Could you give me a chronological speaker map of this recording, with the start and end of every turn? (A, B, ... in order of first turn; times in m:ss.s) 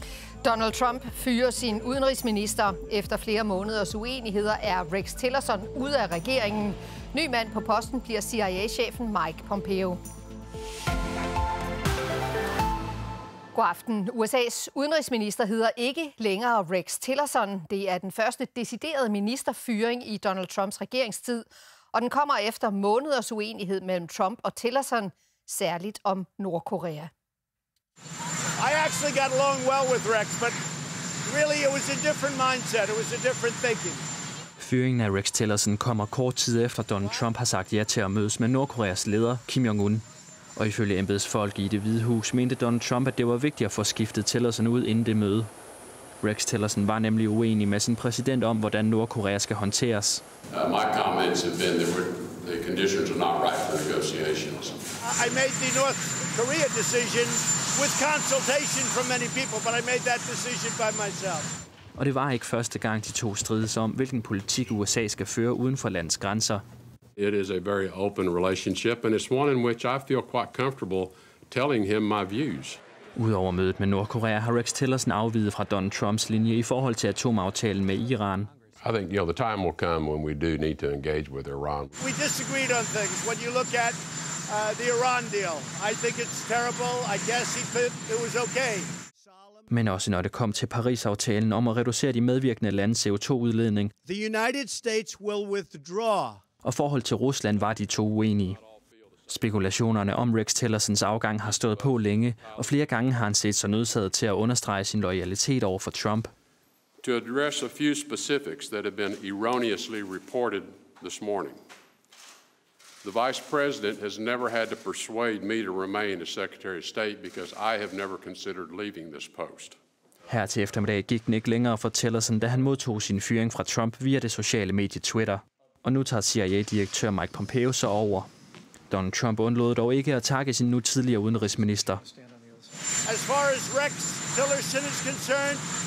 0:00.4-0:10.0 A
0:13.5-0:27.1 A
0:28.6-0:30.6 B
0:31.2-0:34.0 B
0:34.6-0:45.5 C
0:46.2-0:50.2 C
0:50.5-0:54.8 D
0:55.0-1:01.5 B
1:02.0-1:06.6 C
1:07.2-1:12.8 D
1:13.2-1:18.5 C
1:18.8-1:21.9 D
1:22.0-1:29.7 B
1:29.7-1:33.9 C
1:34.0-1:36.4 B
1:36.6-1:38.6 C
1:39.3-1:46.3 C
1:47.0-1:51.6 D
1:53.0-1:59.8 D
2:00.3-2:08.3 C
2:08.9-2:12.0 C
2:13.0-2:15.6 B